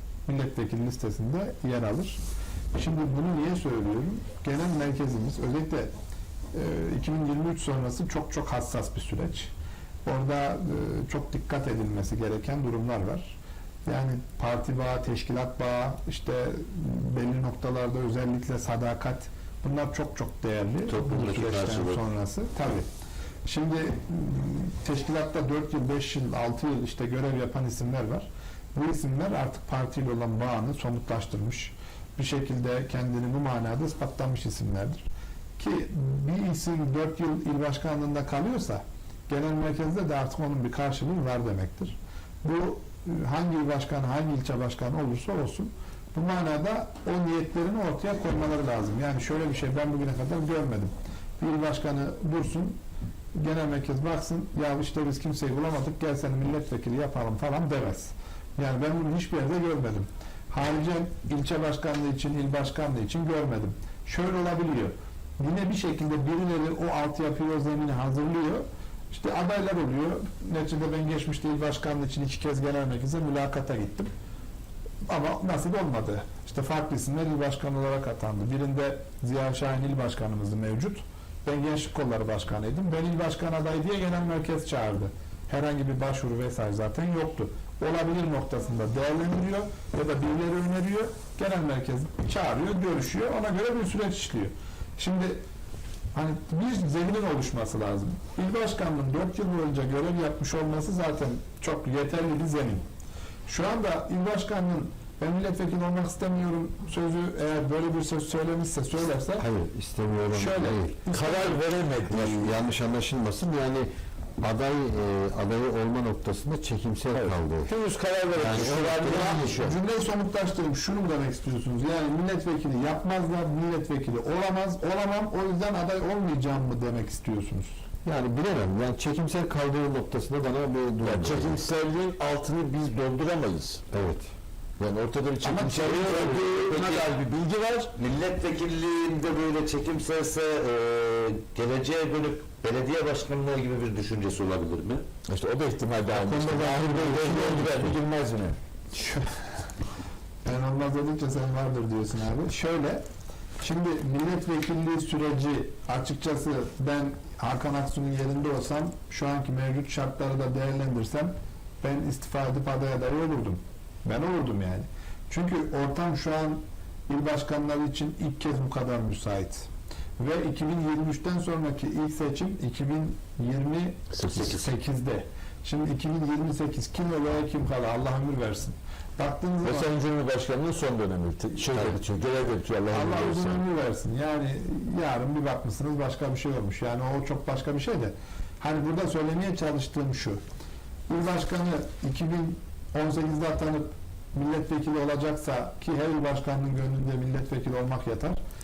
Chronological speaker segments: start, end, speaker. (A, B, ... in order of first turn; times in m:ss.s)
0:00.2-0:02.2 A
0:02.7-0:05.9 A
0:06.5-0:09.5 A
0:10.0-0:22.9 A
0:20.9-0:22.0 B
0:23.4-0:35.0 A
0:35.6-0:52.8 A
0:53.4-1:14.1 A
1:15.1-1:35.4 A
1:36.1-1:42.8 A
1:43.5-1:49.4 A
1:49.4-1:51.0 C
1:50.3-1:51.6 A
1:51.1-1:52.6 D
1:52.1-1:53.9 C
1:54.4-1:57.7 C
1:57.1-1:59.8 D
1:58.3-1:59.5 C
1:59.0-2:07.8 A
2:08.0-2:11.6 C
2:11.0-2:13.8 D
2:13.9-2:14.2 C
2:14.8-2:17.9 D
2:15.4-2:16.0 A
2:15.6-2:17.1 B
2:17.9-2:25.0 B
2:25.2-2:28.6 D
2:26.1-2:28.0 C
2:26.8-2:27.7 B
2:28.9-2:29.2 A
2:30.4-2:33.0 A
2:33.6-2:59.9 A
2:54.1-2:54.7 D
2:59.6-3:03.6 D
3:02.9-3:10.4 A
3:11.1-3:18.4 A